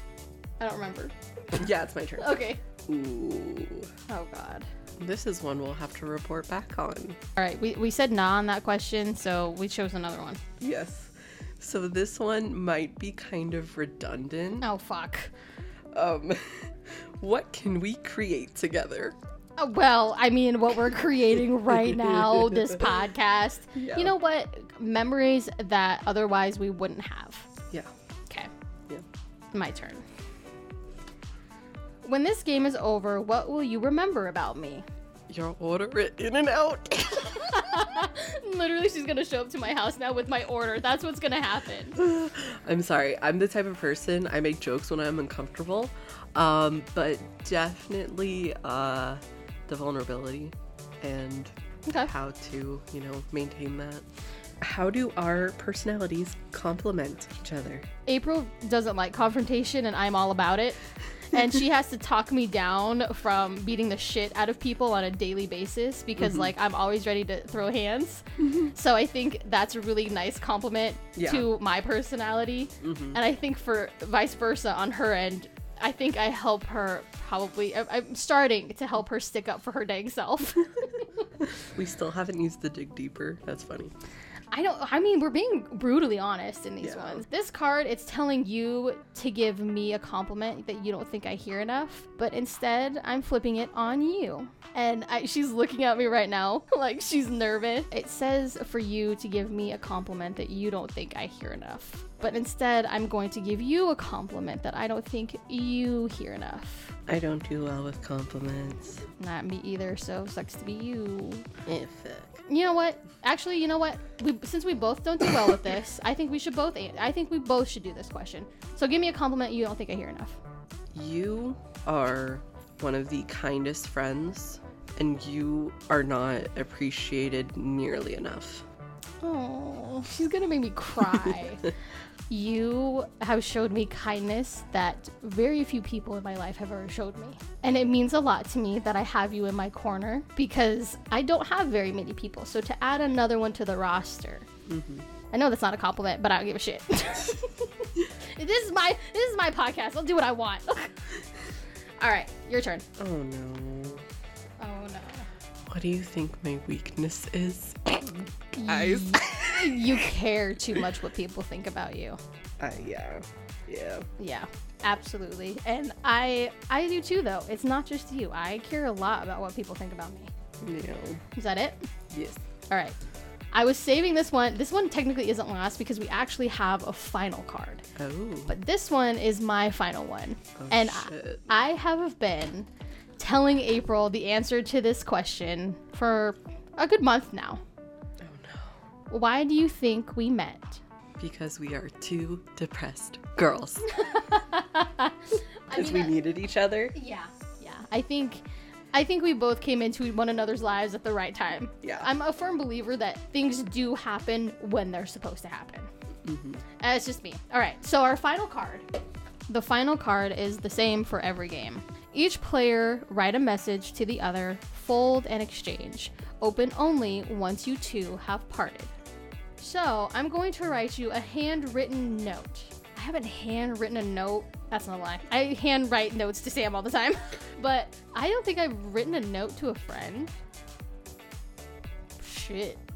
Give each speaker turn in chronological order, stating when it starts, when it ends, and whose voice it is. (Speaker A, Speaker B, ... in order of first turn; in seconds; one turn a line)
Speaker A: 0.6-1.6
Speaker B: 1.5-3.9
Speaker A: 2.2-2.6
Speaker A: 4.1-4.7
Speaker B: 5.0-7.2
Speaker A: 7.4-10.4
Speaker B: 10.6-14.7
Speaker A: 14.6-15.3
Speaker B: 15.9-19.1
Speaker A: 19.6-27.5
Speaker B: 21.8-22.9
Speaker B: 23.7-24.1
Speaker A: 29.5-30.0
Speaker A: 32.0-34.8
Speaker B: 35.3-37.7
Speaker A: 37.5-42.0
Speaker B: 42.0-54.1
Speaker A: 51.9-52.1
Speaker B: 54.6-57.9
Speaker A: 58.0-60.8
Speaker A: 61.3-81.1
Speaker B: 66.2-66.5
Speaker B: 71.2-71.5
Speaker B: 72.8-73.2
Speaker B: 81.6-83.9
Speaker A: 84.5-107.0
Speaker B: 86.8-87.2
Speaker B: 107.1-109.0
Speaker A: 109.2-111.5
Speaker B: 111.7-112.4
Speaker A: 112.5-120.4
Speaker B: 120.9-128.7
Speaker A: 129.2-131.7
Speaker A: 132.3-144.5
Speaker B: 144.7-145.1
Speaker A: 145.3-151.1
Speaker A: 152.0-152.8
Speaker B: 153.0-154.0
Speaker A: 154.6-155.3
Speaker B: 155.7-160.1
Speaker A: 158.5-162.2
Speaker B: 162.6-164.1
Speaker A: 164.2-170.3
Speaker B: 170.6-171.2
Speaker A: 171.3-171.9
Speaker B: 172.1-172.4
Speaker A: 172.7-173.0
Speaker A: 173.5-177.9
Speaker B: 178.0-178.5
Speaker A: 178.5-187.6
Speaker B: 180.6-181.5
Speaker B: 188.2-188.8
Speaker A: 189.1-190.8
Speaker B: 191.2-194.0
Speaker A: 193.9-196.2
Speaker B: 195.7-196.9
Speaker A: 196.9-205.9
Speaker B: 201.8-202.1
Speaker B: 206.2-206.6
Speaker A: 206.8-208.8
Speaker A: 209.5-218.9
Speaker A: 219.6-230.3
Speaker A: 232.2-232.8